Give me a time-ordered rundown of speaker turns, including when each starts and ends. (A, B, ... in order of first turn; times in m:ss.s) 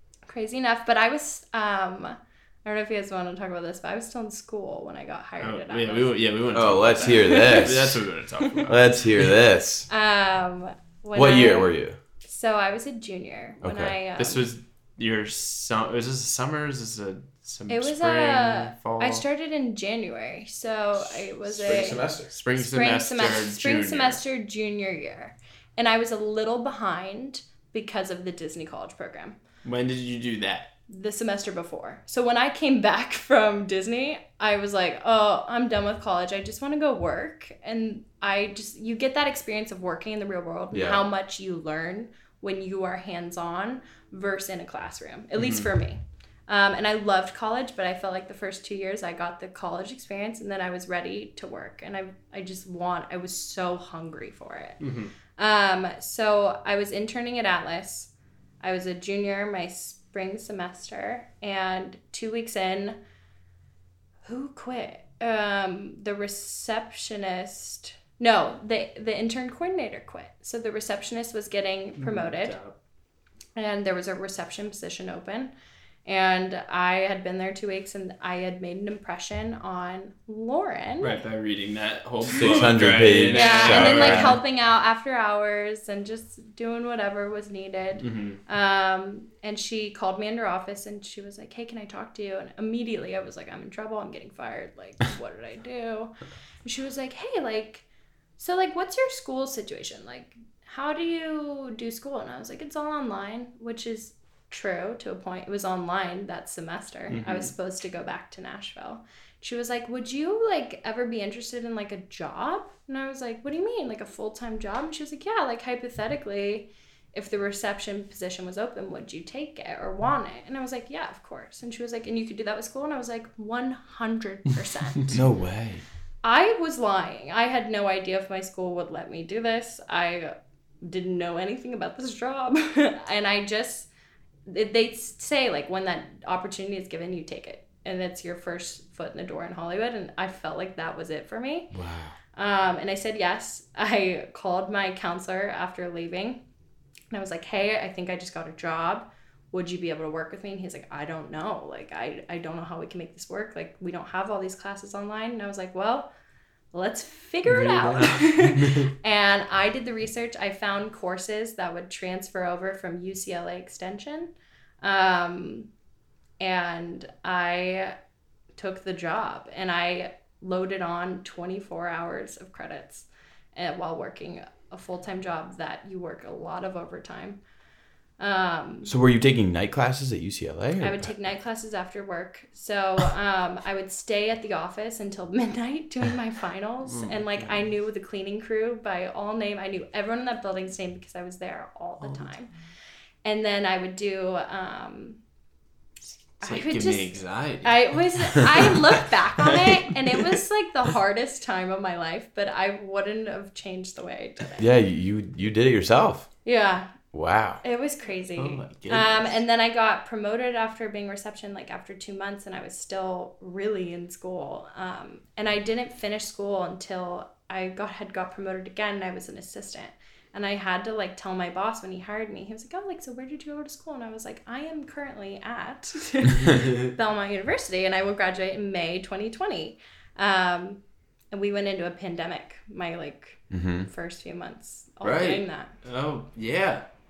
0:00.3-0:06.1 A
0:05.4-0:08.9 B
0:06.5-0:08.0 C
0:07.0-0:07.7 A
0:08.7-0:09.9 C
0:09.9-0:14.4 A
0:11.1-0:12.0 C
0:13.6-0:13.9 C
0:14.2-0:19.2 B
0:17.7-0:22.0 A
0:21.4-0:22.3 C
0:22.3-0:24.2 B
0:22.6-0:29.4 A
0:29.6-0:30.7 B
0:30.9-0:54.8 A
0:40.7-0:41.0 C
0:54.8-0:55.1 B
0:55.4-1:03.0 A
1:04.2-1:12.6 A
1:12.0-1:12.8 B
1:13.6-1:15.5 A
1:16.0-1:21.2 A
1:21.0-1:24.4 B
1:22.3-1:24.4 C
1:23.3-1:37.8 A
1:28.0-1:28.4 B
1:38.4-2:05.1 A
1:47.1-1:47.5 B
2:05.1-2:05.8 C
2:06.2-2:13.9 A
2:14.5-2:21.7 A
2:21.7-2:22.1 C
2:22.3-2:26.4 A
2:27.1-2:36.1 A
2:36.7-2:45.7 A
2:37.5-2:38.9 B
2:46.4-2:48.0 A
2:48.5-2:57.4 A
2:58.2-2:58.9 A
2:58.8-3:01.1 C
3:00.8-3:12.5 A
3:06.9-3:07.6 B
3:13.2-3:15.2 A
3:16.4-3:17.1 A
3:16.4-3:18.8 B
3:17.6-3:24.7 A
3:19.4-3:20.3 B
3:24.6-3:26.3 C
3:26.4-3:27.0 A
3:27.1-3:27.6 C
3:27.6-3:50.8 A
3:28.3-3:29.4 B
3:51.3-3:55.7 A
3:53.5-3:53.9 C
3:55.0-3:56.8 B